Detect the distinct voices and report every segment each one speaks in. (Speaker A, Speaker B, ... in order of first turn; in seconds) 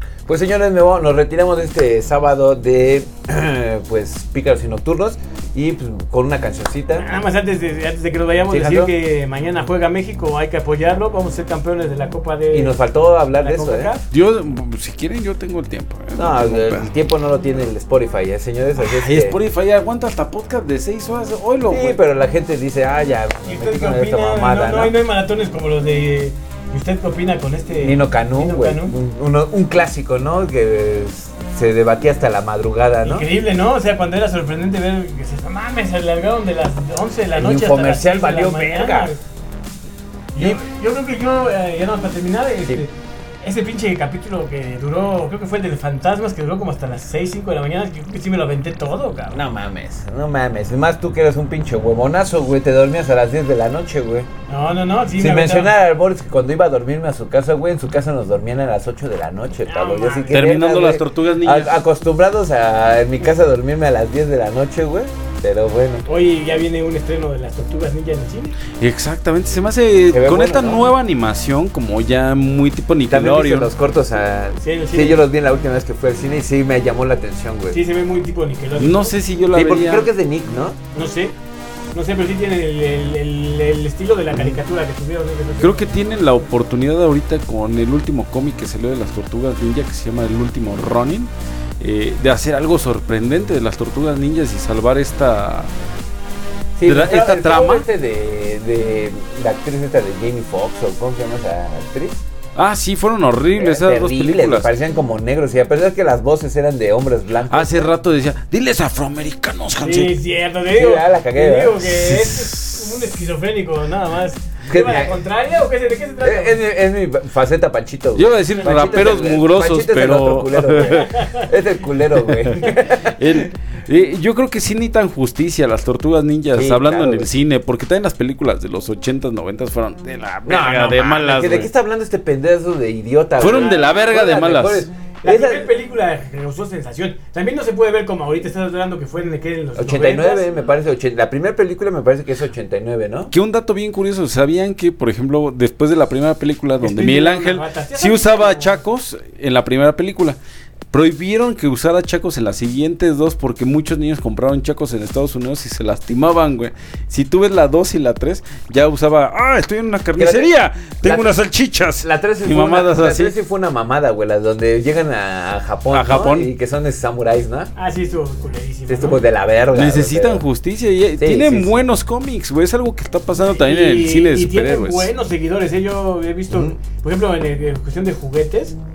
Speaker A: 0.3-7.1, 8.5-8.9, 12.5-13.9, 16.2-19.4, 21.7-24.9, 27.8-33.3, 37.4-39.2, 40.4-40.6, 49.3-54.3, 55.2-66.0, 70.1-70.9, 73.1-77.8, 79.5-80.8, 96.8-102.2, 103.6-107.9, 110.7-111.8, 114.7-115.2, 116.2-123.5, 126.5-127.3, 130.5-135.7, 139.8-143.3, 160.2-161.4, 162.0-167.7, 168.9-170.4, 171.2-171.8, 176.5-176.8
Speaker B: 6.9-12.8, 13.4-14.0, 23.4-28.9, 33.0-39.2, 40.3-49.4, 54.5-55.7, 59.7-60.4, 66.1-68.6, 74.6-75.2, 77.7-79.2, 80.9-81.3, 81.9-86.0, 109.8-116.6, 118.6-119.0, 120.8-121.5, 133.5-133.8, 135.2-140.4, 146.8-148.8, 167.8-169.2, 173.4-178.8
Speaker C: 14.1-16.9, 18.8-22.0, 60.3-61.7, 68.8-73.7, 78.8-80.1, 85.6-95.7, 96.8-97.9, 102.6-104.7, 107.5-110.1, 111.8-113.0, 118.2-121.1, 122.3-131.7, 133.4-134.9, 143.3-150.4, 150.9-163.3, 165.9-166.5, 169.7-175.1